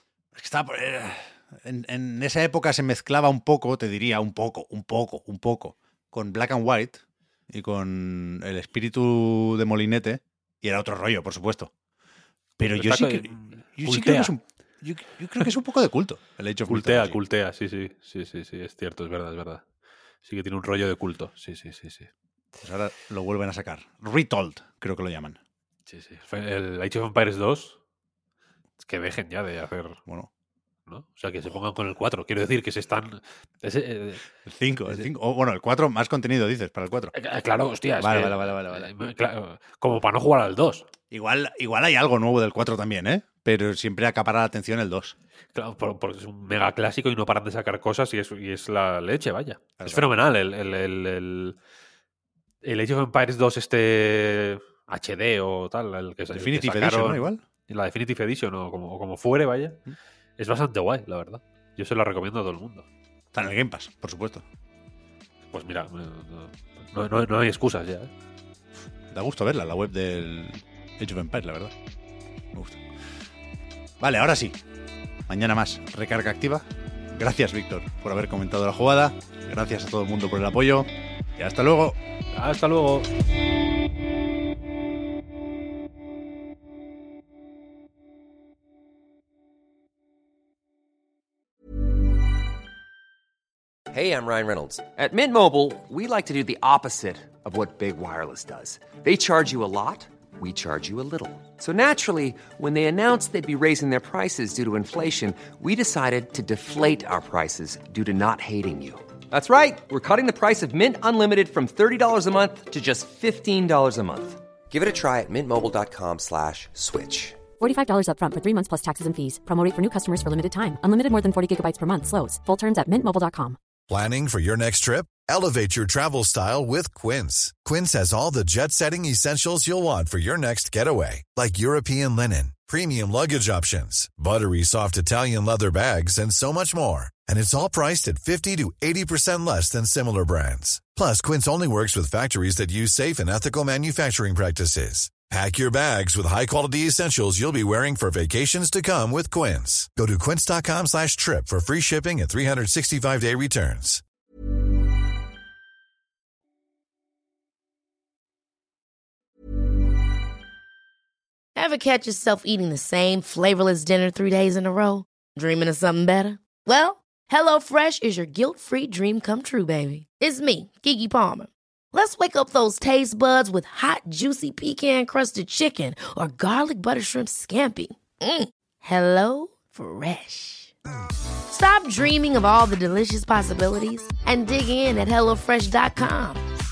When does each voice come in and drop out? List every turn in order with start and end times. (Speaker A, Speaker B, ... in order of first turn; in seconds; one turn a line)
Speaker A: 0.3-11.7
Speaker A: 12.6-17.2
Speaker B: 12.8-14.3
Speaker B: 16.7-19.6
Speaker B: 20.2-22.1
Speaker A: 22.6-25.4
Speaker B: 25.9-27.8
Speaker B: 28.8-30.0
Speaker B: 30.9-34.3
Speaker A: 34.4-37.1
Speaker B: 37.1-40.9
Speaker A: 38.0-38.9
Speaker A: 41.1-45.2
Speaker B: 45.5-51.6
Speaker A: 49.8-50.1
Speaker B: 52.6-59.8
Speaker A: 56.3-57.4
Speaker B: 60.4-62.9
Speaker A: 63.3-64.5
Speaker B: 65.5-68.1
Speaker A: 69.1-71.8
Speaker A: 72.5-72.8
Speaker A: 74.0-74.6
Speaker A: 75.3-82.0
Speaker B: 82.3-83.1
Speaker C: 93.9-117.4
Speaker D: 117.6-123.6
Speaker E: 123.9-154.0
Speaker F: 161.6-180.7
Speaker F: 181.5-186.4